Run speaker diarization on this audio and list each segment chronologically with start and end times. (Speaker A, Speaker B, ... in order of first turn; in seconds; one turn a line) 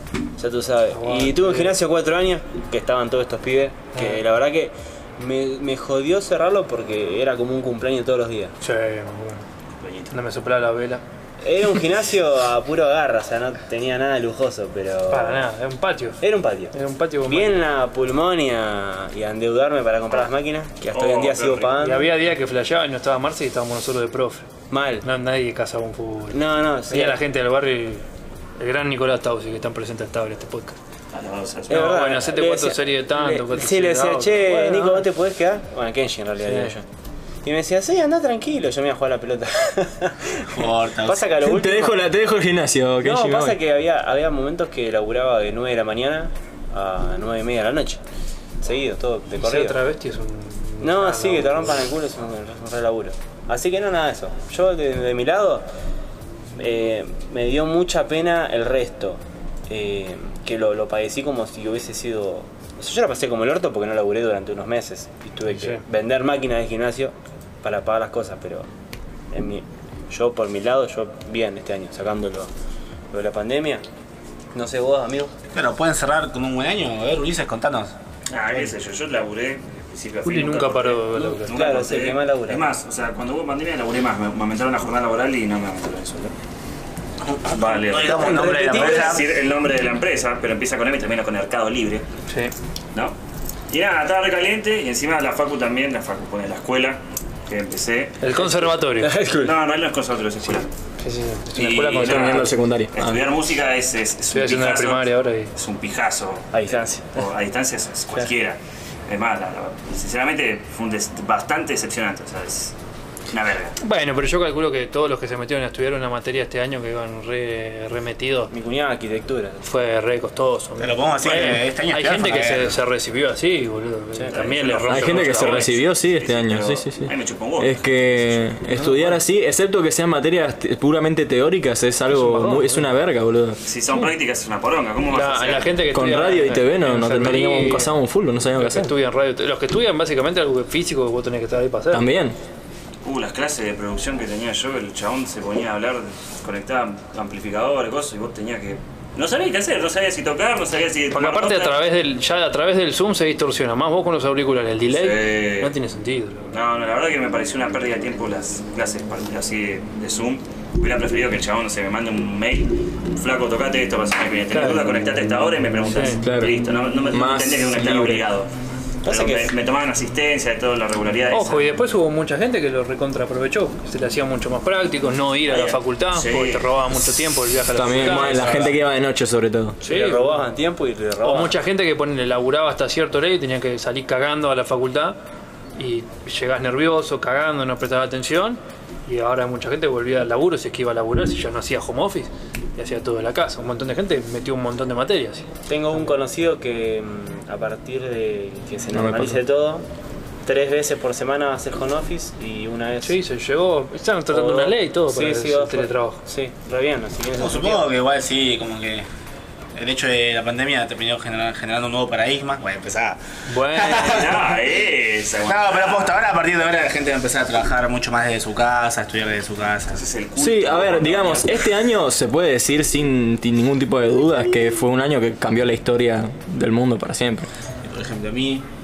Speaker A: 0.4-8.5
Speaker B: 0.9-1.8
Speaker B: 3.9-4.2
Speaker B: 8.6-9.4
Speaker C: 9.8-10.1
Speaker B: 10.1-11.0
Speaker A: 11.4-15.4
Speaker B: 15.1-17.6
Speaker A: 16.2-16.7
Speaker A: 17.3-22.1
Speaker C: 20.9-21.8
Speaker B: 21.8-24.5
Speaker A: 24.7-25.0
Speaker B: 25.0-28.0
Speaker A: 26.3-27.2
Speaker B: 28.6-30.8
Speaker C: 31.1-31.9
Speaker A: 31.7-36.8
Speaker B: 31.7-35.0
Speaker B: 36.4-36.7
Speaker A: 37.4-42.0
Speaker D: 40.5-41.2
Speaker E: 41.4-43.6
Speaker A: 43.0-48.0
Speaker A: 48.6-49.8
Speaker B: 49.4-51.9
Speaker A: 50.8-55.6
Speaker A: 56.5-68.7
Speaker B: 65.5-65.8
Speaker A: 69.3-72.5
Speaker A: 73.1-73.8
Speaker A: 74.5-75.4
Speaker D: 75.5-77.9
Speaker C: 78.3-86.3
Speaker B: 80.2-81.7
Speaker A: 81.2-82.7
Speaker D: 87.2-89.2
Speaker C: 87.5-92.0
Speaker A: 88.1-89.2
Speaker B: 92.3-92.5
Speaker C: 93.7-98.2
Speaker B: 98.2-99.2
Speaker A: 98.3-99.5
Speaker C: 99.4-100.7
Speaker B: 101.0-102.5
Speaker C: 101.5-112.7
Speaker E: 102.0-103.2
Speaker B: 104.3-105.5
Speaker A: 106.5-107.2
Speaker C: 113.3-113.7
Speaker B: 113.8-118.5
Speaker A: 118.5-119.6
Speaker B: 119.6-125.7
Speaker D: 120.8-122.8
Speaker C: 124.3-128.4
Speaker E: 124.9-133.6
Speaker B: 132.1-132.9
Speaker C: 133.7-135.8
Speaker B: 135.1-137.9
Speaker E: 135.9-138.9
Speaker B: 138.6-142.1
Speaker E: 141.9-142.4
Speaker C: 143.0-151.8
Speaker B: 151.1-156.5
Speaker C: 154.9-155.7
Speaker C: 156.5-168.5
Speaker B: 164.5-164.9
Speaker B: 165.9-166.2
Speaker E: 166.2-166.5
Speaker E: 167.1-168.2
Speaker A: 169.0-169.5
Speaker C: 169.1-171.7
Speaker B: 171.3-178.8
Speaker C: 175.5-176.6
Speaker E: 177.7-179.8
Speaker A: 178.3-178.6
Speaker B: 179.8-180.4
Speaker A: 179.8-181.6
Speaker B: 181.2-185.2
Speaker B: 185.8-195.5
Speaker A: 195.7-199.8
Speaker E: 198.9-199.4
Speaker A: 200.4-203.2
Speaker B: 203.0-206.2
Speaker A: 204.3-207.9
Speaker D: 207.4-209.1
Speaker D: 209.8-214.4
Speaker B: 213.5-214.4
Speaker C: 213.8-216.1
Speaker D: 215.4-220.0
Speaker C: 219.9-221.7
Speaker E: 220.4-227.5
Speaker D: 227.8-228.6